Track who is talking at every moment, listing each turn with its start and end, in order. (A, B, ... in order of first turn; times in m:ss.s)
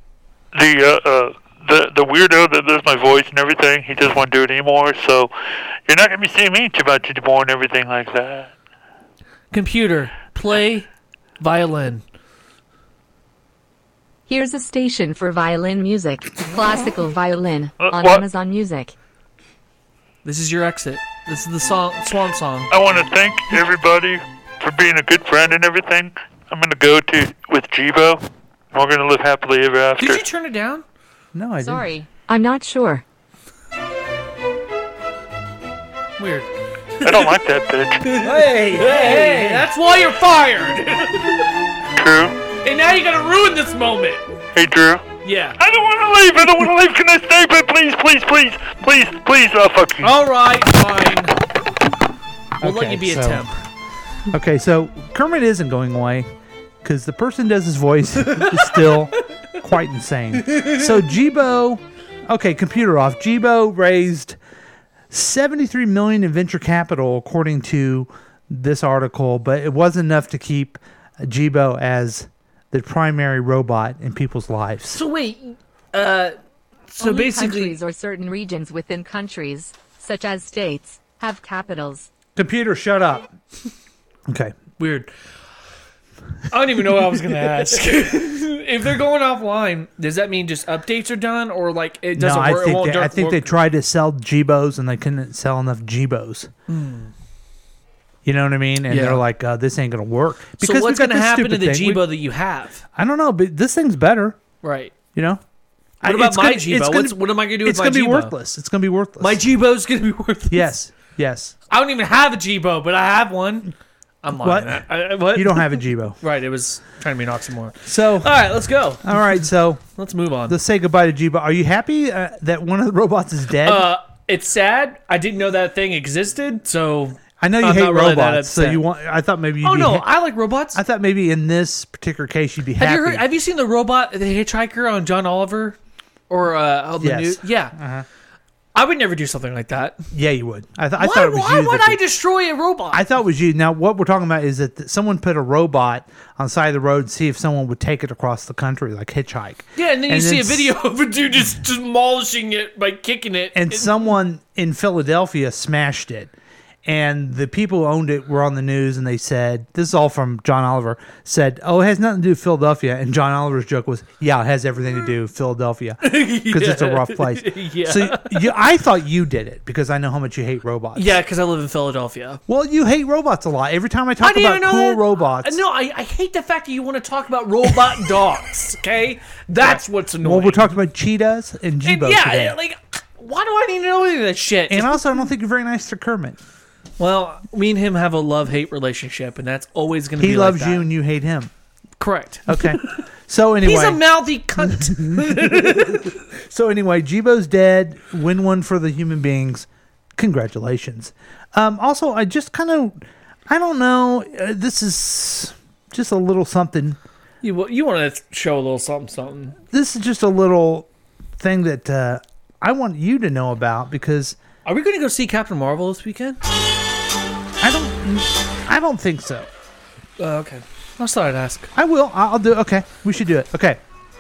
0:00.5-0:05.3 A
0:05.9-0:08.5 A
0:09.5-0:10.9 B
0:11.4-0:12.0 B
0:14.3-0:18.9 C
0:17.8-0:18.2 A
0:20.2-0:22.7 B
0:22.7-0:30.2 A
0:30.0-0:30.8 B
0:31.3-0:31.9 D
0:31.6-0:33.0 C
0:37.0-0:37.3 B
0:37.0-0:38.2 A
0:38.0-0:41.5 B
0:38.2-0:39.7 D
0:41.9-0:42.4 A
0:42.6-0:44.2 B
0:44.6-0:45.0 A
0:45.2-0:45.6 B
0:45.6-0:50.2 A
0:50.0-0:51.4 B
0:52.6-0:53.5 D
0:52.6-0:53.6 B
0:54.3-0:56.3 D
0:56.8-1:04.4 D
0:58.3-0:58.9 B
1:00.4-1:00.8 B
1:05.1-1:15.0 D
1:14.9-1:16.4 B
1:17.0-1:17.8 B
1:17.0-1:22.1 C
1:22.4-1:23.3 D
1:24.3-1:24.6 D
1:24.8-1:25.1 B
1:26.5-1:33.6 B
1:32.2-1:36.5 D
1:36.7-1:37.1 B
1:38.2-1:42.1 D
1:38.9-1:39.2 B
1:40.6-1:42.8 B
1:42.9-1:44.4 D
1:44.6-1:44.9 B
1:45.2-1:45.4 D
1:46.0-1:49.4 D
1:46.0-1:48.4 B
1:49.2-1:50.7 B
1:50.5-1:51.6 D
1:51.7-1:59.4 B
1:54.4-1:56.2 D
1:57.8-1:58.3 D
1:59.0-1:59.8 D
2:00.0-2:00.6 B
2:00.5-2:03.9 D
2:03.6-2:08.8 B
2:07.4-2:10.1 D
2:09.6-2:10.8 B
2:10.7-2:13.2 D
2:12.8-2:15.8 B
2:16.3-2:17.8 B
2:17.0-2:18.0 D
2:18.8-2:20.1 B
2:20.1-2:22.0 D
2:21.0-2:23.0 B
2:22.9-2:30.7 D
2:29.8-2:34.0 B
2:33.5-2:36.3 D
2:36.8-2:51.2 D
2:46.0-2:48.5 B
2:51.0-2:52.4 B
2:52.5-2:55.6 D
2:54.2-3:00.8 B
2:59.6-3:02.6 D
3:01.8-3:05.0 B
3:04.7-3:06.4 D
3:07.0-3:10.9 B
3:10.2-3:11.5 D
3:12.0-3:13.0 B
3:12.5-3:14.0 D
3:13.6-3:16.1 B
3:14.7-3:27.0 D
3:27.4-3:29.6 B
3:29.7-3:34.4 D
3:34.6-3:36.4 B
3:37.6-3:39.5 D
3:40.2-3:41.7 B
3:41.7-3:43.8 D